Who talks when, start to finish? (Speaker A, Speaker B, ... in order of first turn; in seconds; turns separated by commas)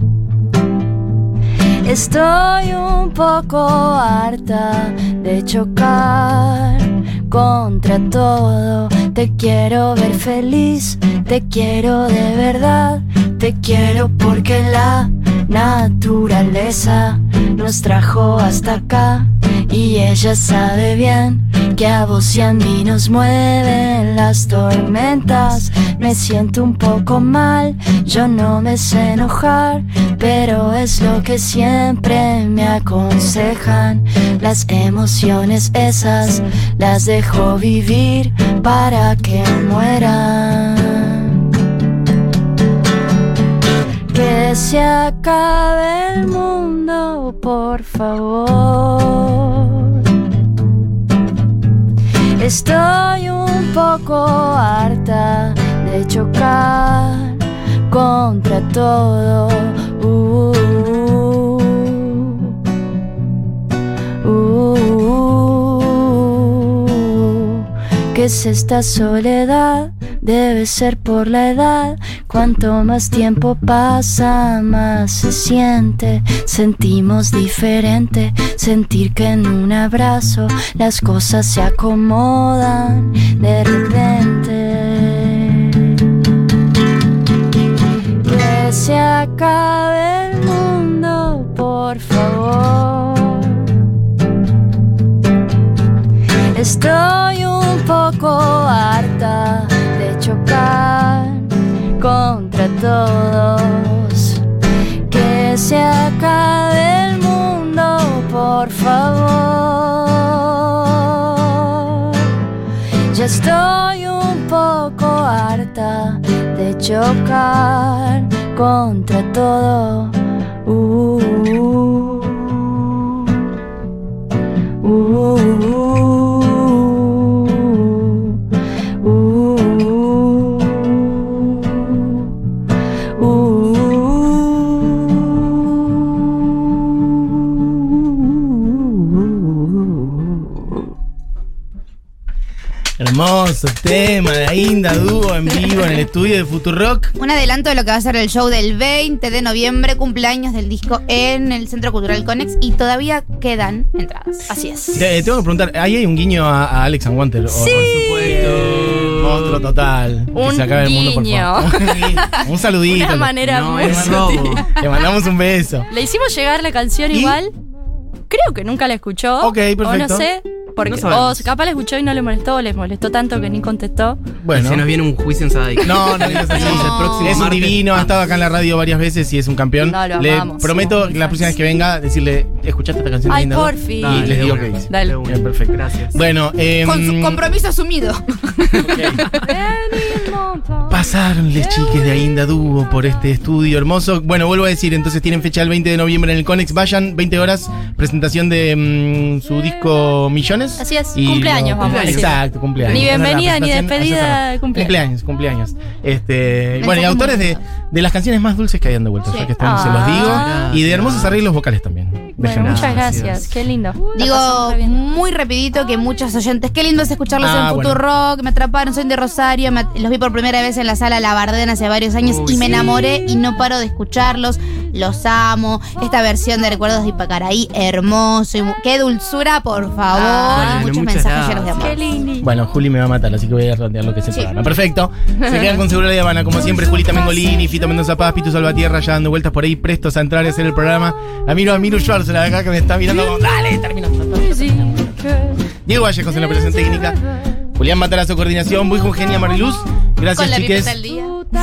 Speaker A: 1.8-41.4, Speaker A: 44.1-50.0, Speaker A: 52.4-62.5, Speaker A: 64.2-86.0, Speaker A: 88.2-93.7, Speaker A: 96.5-104.4, Speaker A: 105.1-112.3, Speaker A: 113.1-123.3, Speaker A: 124.8-128.4, Speaker A: 129.0-132.3, Speaker A: 133.2-140.3, Speaker B: 143.0-147.1, Speaker C: 147.2-154.5, Speaker D: 154.5-155.1, Speaker B: 154.9-165.9, Speaker D: 157.5-158.4, Speaker E: 157.6-159.7, Speaker D: 160.3-164.8, Speaker E: 163.4-164.7, Speaker D: 165.9-167.5, Speaker B: 167.1-167.4, Speaker D: 168.3-174.2, Speaker B: 169.4-170.3, Speaker E: 170.8-171.5, Speaker B: 174.4-174.9, Speaker E: 174.5-178.1, Speaker B: 175.8-187.4, Speaker D: 176.5-177.6, Speaker D: 179.8-181.5, Speaker D: 183.3-185.2, Speaker E: 184.0-186.2, Speaker C: 186.8-188.8, Speaker B: 188.8-189.3, Speaker D: 189.4-190.8, Speaker B: 190.9-213.4, Speaker D: 200.8-205.0, Speaker E: 201.8-203.1, Speaker D: 206.8-207.6, Speaker C: 209.3-209.6, Speaker D: 209.6-210.7, Speaker E: 209.7-211.4, Speaker D: 212.4-215.0, Speaker E: 212.6-213.5, Speaker C: 214.2-232.0, Speaker B: 217.4-218.0, Speaker E: 222.2-223.0, Speaker D: 230.1-230.9, Speaker E: 230.4-232.0, Speaker D: 231.8-232.5, Speaker B: 232.4-245.2, Speaker D: 235.4-235.8, Speaker D: 244.4-245.6, Speaker B: 245.8-247.2, Speaker B: 247.8-251.0, Speaker C: 250.3-251.4